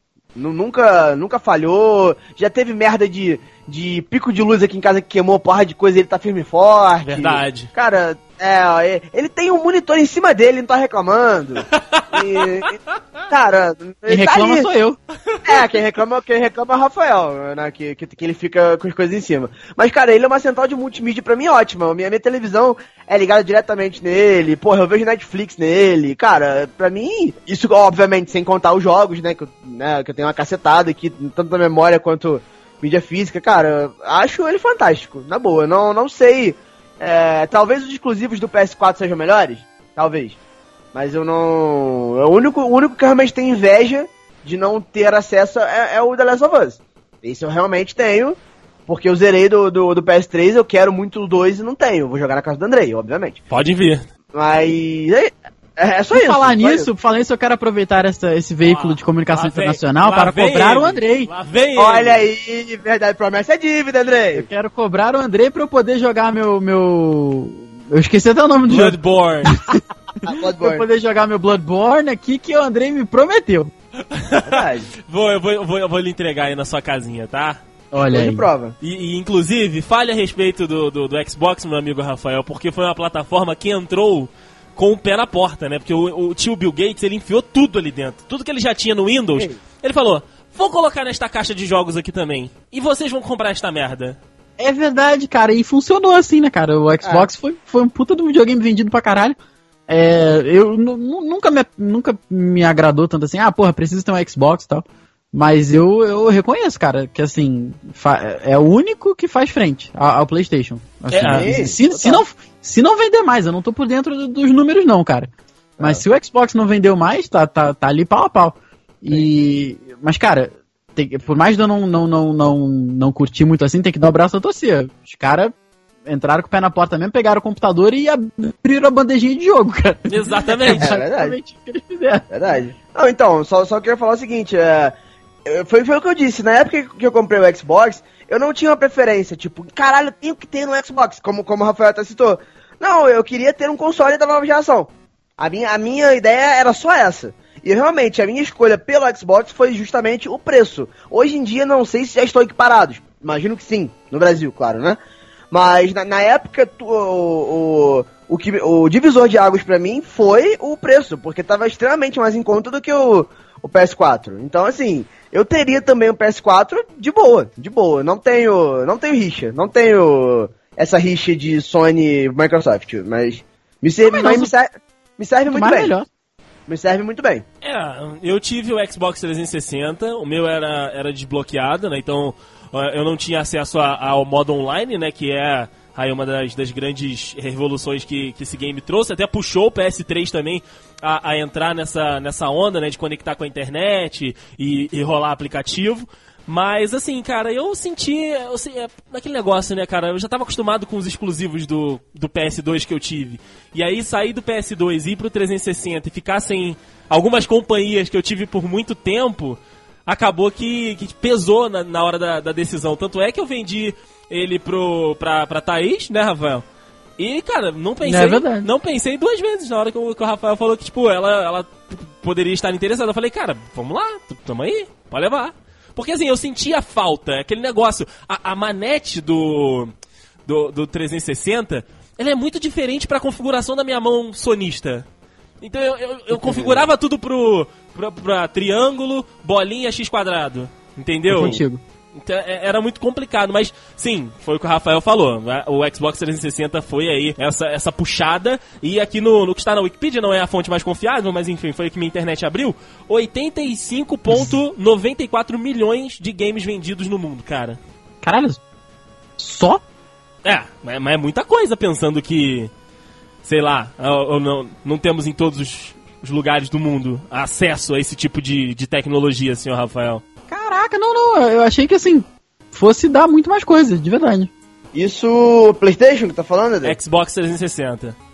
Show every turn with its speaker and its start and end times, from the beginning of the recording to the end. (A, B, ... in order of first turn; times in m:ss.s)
0:00.3-0:12.8 A
0:07.0-0:07.7 B
0:11.7-0:12.7 B
0:13.3-0:14.7 A
0:14.1-0:15.0 C
0:15.3-0:15.6 B
0:15.4-0:40.4 A
0:40.9-0:53.4 A
0:53.5-0:54.0 B
0:54.3-0:56.9 A
0:56.1-1:01.3 C
0:58.6-1:02.3 B
1:01.8-1:04.5 A
1:04.3-1:13.7 C
1:08.6-1:09.6 B
1:10.2-1:10.8 A
1:14.1-1:17.6 B
1:14.4-1:14.9 A
1:17.9-1:18.5 C
1:18.0-1:18.7 A
1:18.8-1:34.2 B
1:34.6-1:39.4 C
1:37.0-1:37.3 A
1:39.9-2:05.5 C
1:51.1-1:51.6 B
1:51.3-1:52.2 A
2:06.0-2:12.2 C
2:10.1-2:10.9 B
2:10.7-2:11.4 A
2:12.3-2:35.0 A
2:35.5-2:55.9 A
2:54.0-2:54.5 C
2:55.5-2:56.1 C
2:56.7-2:57.4 A
2:57.6-3:36.6 B
3:37.2-3:49.9 B
3:38.0-3:38.7 C
3:50.4-3:55.0 B
3:55.6-4:01.6 B
3:56.5-3:56.8 A
4:01.3-4:01.8 C
4:02.1-4:17.8 B
4:18.2-4:18.6 C
4:19.4-4:19.8 C
4:20.4-4:22.7 B
4:23.4-4:30.2 B
4:30.5-4:34.5 C
4:34.9-4:37.0 A
4:36.8-4:38.1 B